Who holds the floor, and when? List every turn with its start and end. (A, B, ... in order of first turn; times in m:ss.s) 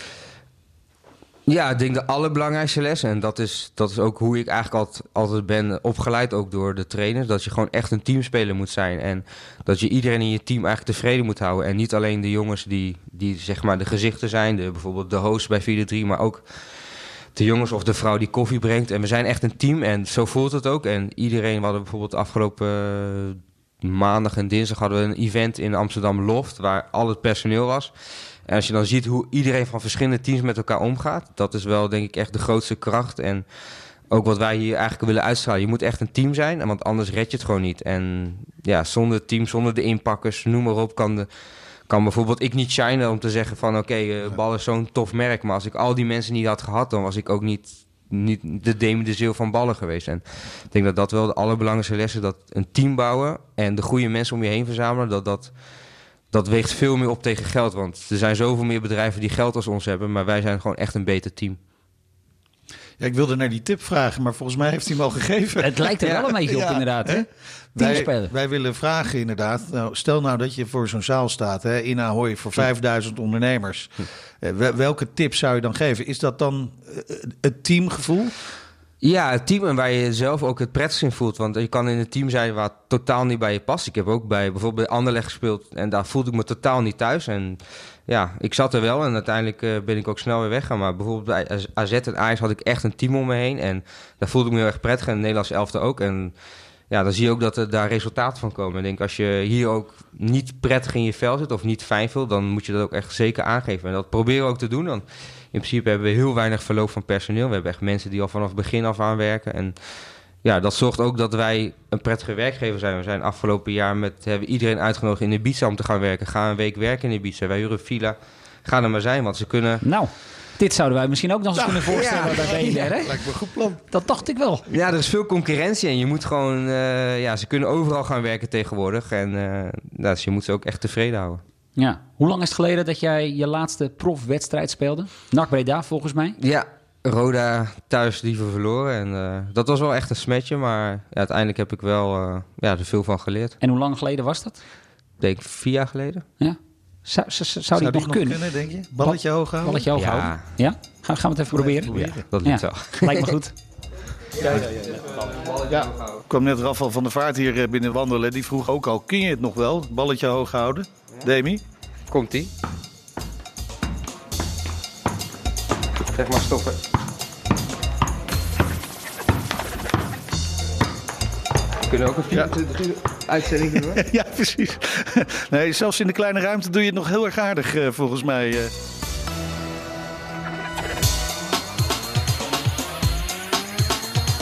0:01.5-0:16.4 A
0:17.4-0:27.9 A
0:28.5-0:33.4 A
0:34.1-0:41.3 A
0:41.9-0:55.5 A
0:56.3-1:01.6 A
1:03.0-1:18.3 B
1:05.6-1:08.3 C
1:06.0-1:06.3 A
1:19.0-1:36.3 A
1:36.9-1:49.8 A
1:50.4-1:59.8 A
1:59.8-2:03.2 C
2:01.6-2:03.9 B
2:01.9-2:02.9 A
2:03.8-2:04.6 C
2:04.7-2:11.4 A
2:11.8-2:16.4 C
2:16.4-2:23.6 A
2:23.6-2:24.6 C
2:25.2-2:26.3 A
2:26.4-2:28.4 C
2:27.8-2:29.9 B
2:29.0-2:33.6 C
2:30.0-2:30.4 A
2:31.5-2:32.2 B
2:31.9-2:33.3 A
2:34.4-2:36.2 A
2:34.4-2:35.0 B
2:35.6-2:41.6 B
2:42.1-2:42.5 A
2:46.1-2:46.8 A
2:51.9-2:54.1 A
2:53.7-2:58.7 B